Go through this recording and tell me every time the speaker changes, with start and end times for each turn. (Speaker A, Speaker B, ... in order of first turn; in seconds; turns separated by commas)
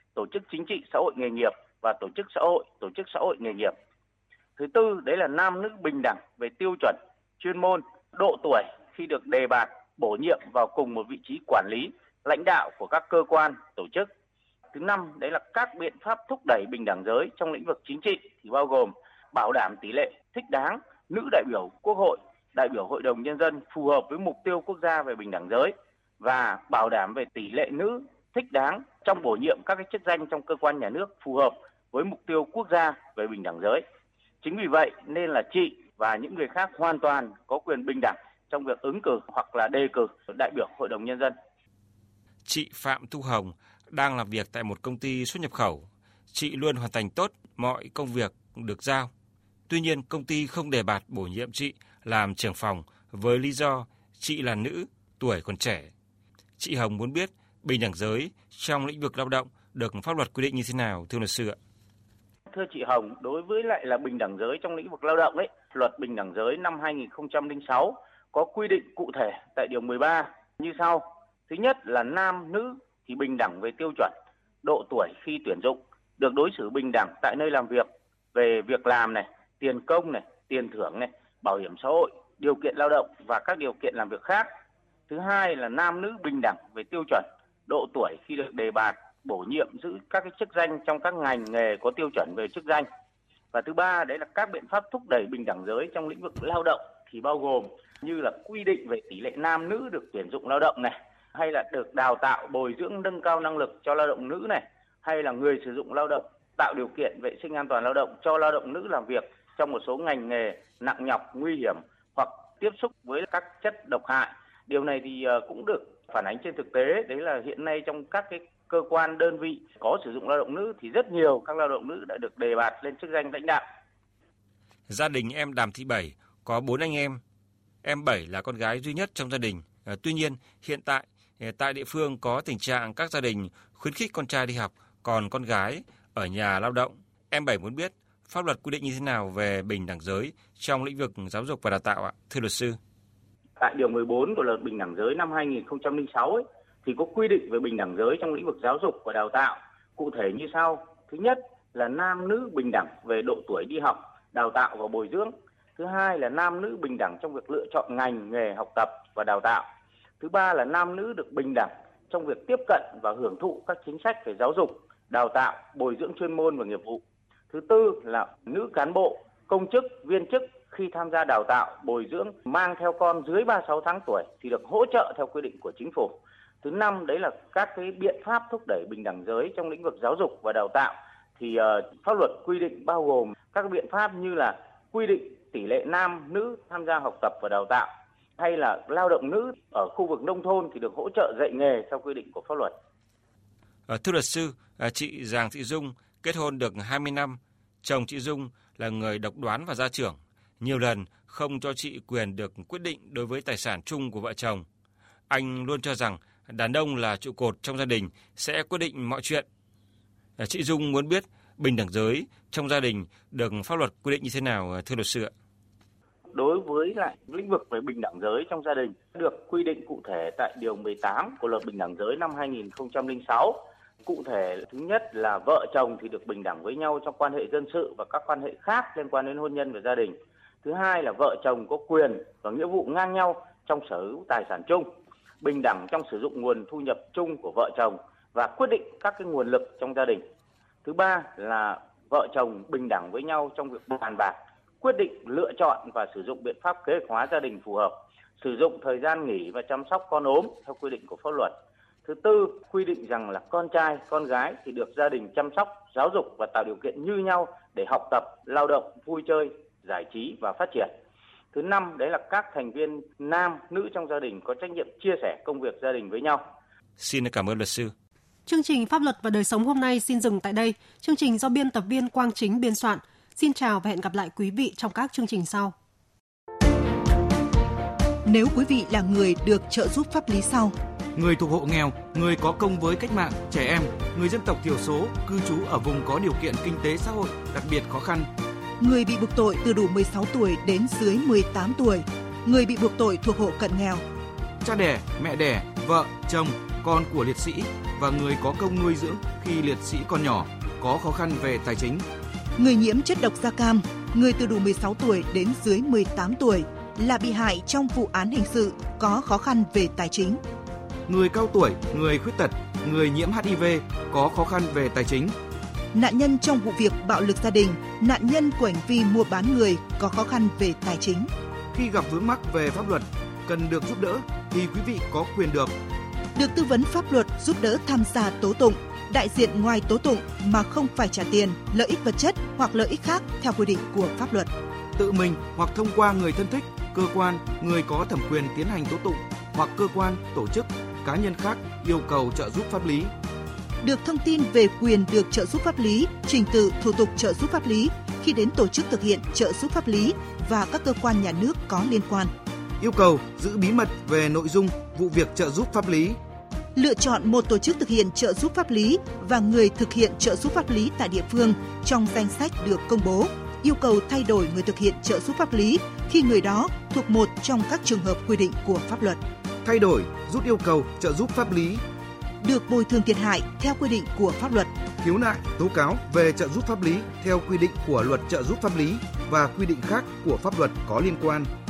Speaker A: 0.1-3.7, Speaker A: 4.6-14.1, Speaker A: 14.7-33.8, Speaker A: 34.4-41.3, Speaker B: 42.4-49.1, Speaker B: 49.7-55.9, Speaker B: 56.6-61.6, Speaker A: 62.5-84.5, Speaker A: 85.1-92.8, Speaker A: 93.5-123.6, Speaker B: 124.9-127.2, Speaker B: 127.8-142.8, Speaker A: 143.6-159.7, Speaker A: 160.2-187.9, Speaker A: 188.4-192.7, Speaker B: 193.9-204.6, Speaker B: 205.3-209.4, Speaker B: 210.4-215.3, Speaker A: 216.3-234.9, Speaker A: 235.4-240.2, Speaker A: 240.8-251.5, Speaker A: 252.0-260.9, Speaker A: 261.5-266.4, Speaker B: 267.0-267.9, Speaker C: 268.4-275.7, Speaker D: 278.2-280.7, Speaker E: 281.1-288.3, Speaker D: 288.8-294.0, Speaker E: 294.6-302.0, Speaker D: 302.6-310.4, Speaker E: 311.1-315.3, Speaker D: 315.9-321.3, Speaker E: 321.7-325.7, Speaker D: 326.3-334.5, Speaker E: 335.0-343.1, Speaker D: 343.8-352.3, Speaker E: 352.8-356.2, Speaker D: 356.8-369.2, Speaker E: 369.6-371.8, Speaker D: 372.4-374.7, Speaker E: 375.0-381.5